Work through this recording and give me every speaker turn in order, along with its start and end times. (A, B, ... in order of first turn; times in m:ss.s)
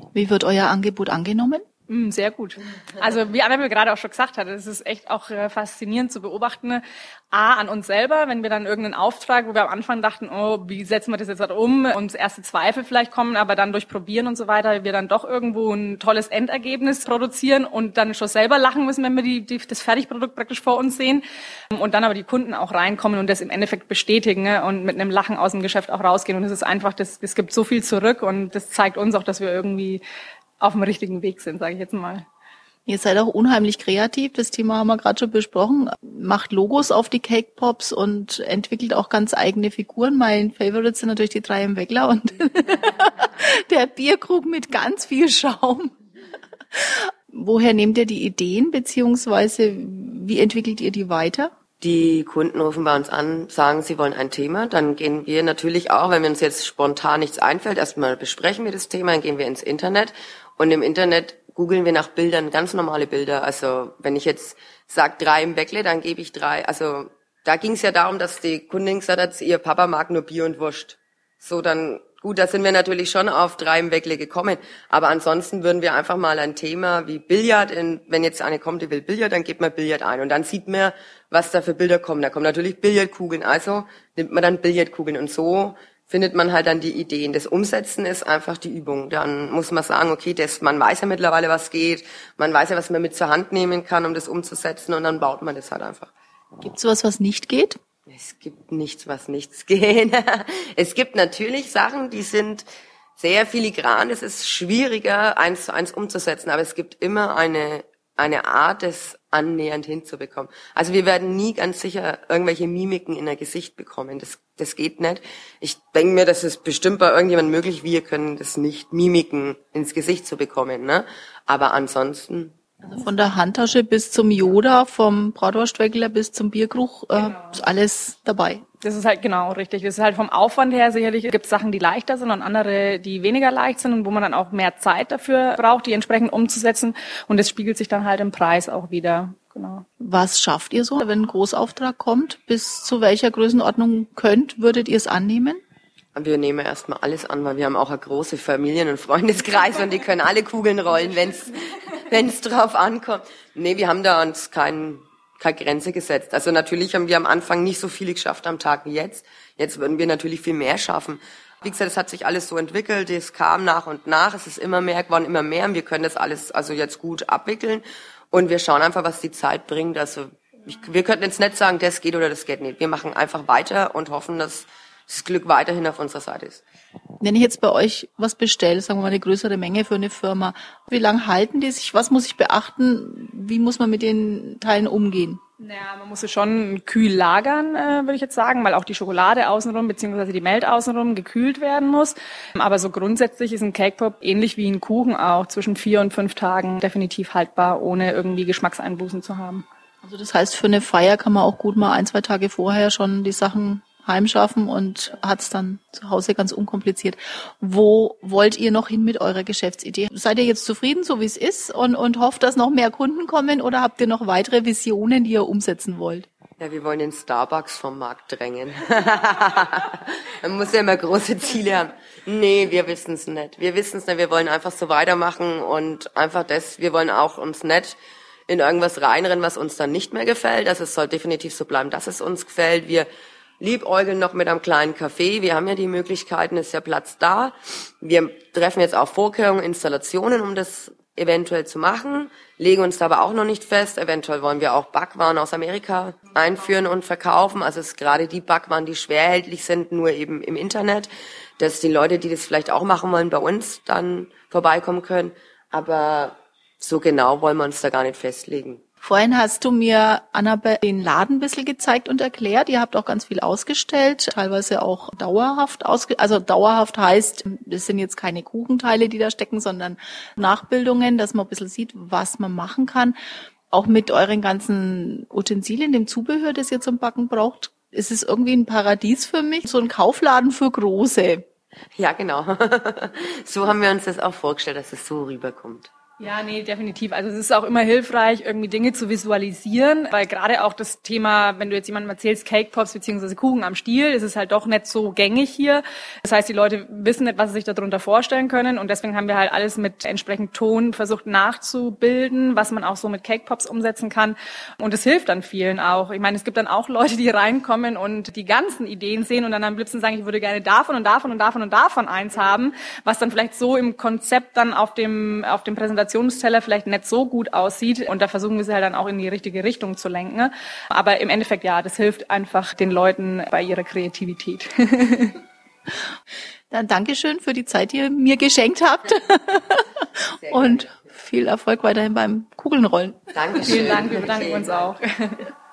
0:00.1-0:01.6 A
0:01.9-0:30.0 B
0:30.6-0:32.2 B
0:32.9-0:45.9 A
0:46.7-0:51.5 A
0:51.8-1:36.1 C
1:36.6-1:37.8 A
1:38.1-1:42.6 C
1:43.2-2:02.5 C
2:02.8-2:08.6 A
2:07.2-2:07.6 B
2:08.8-2:19.8 B
2:20.0-2:25.6 A
2:26.1-2:56.6 C
2:57.2-3:05.4 A
3:05.6-3:19.6 B
3:20.0-3:36.3 A
3:36.6-3:48.0 C
3:48.5-3:53.1 C
3:53.6-4:18.8 C
4:19.0-4:33.2 A
4:33.7-4:41.4 A
4:42.0-4:45.9 C
4:46.2-5:25.4 B
5:26.7-5:34.1 A
5:33.3-5:34.7 C
5:33.6-5:35.5 B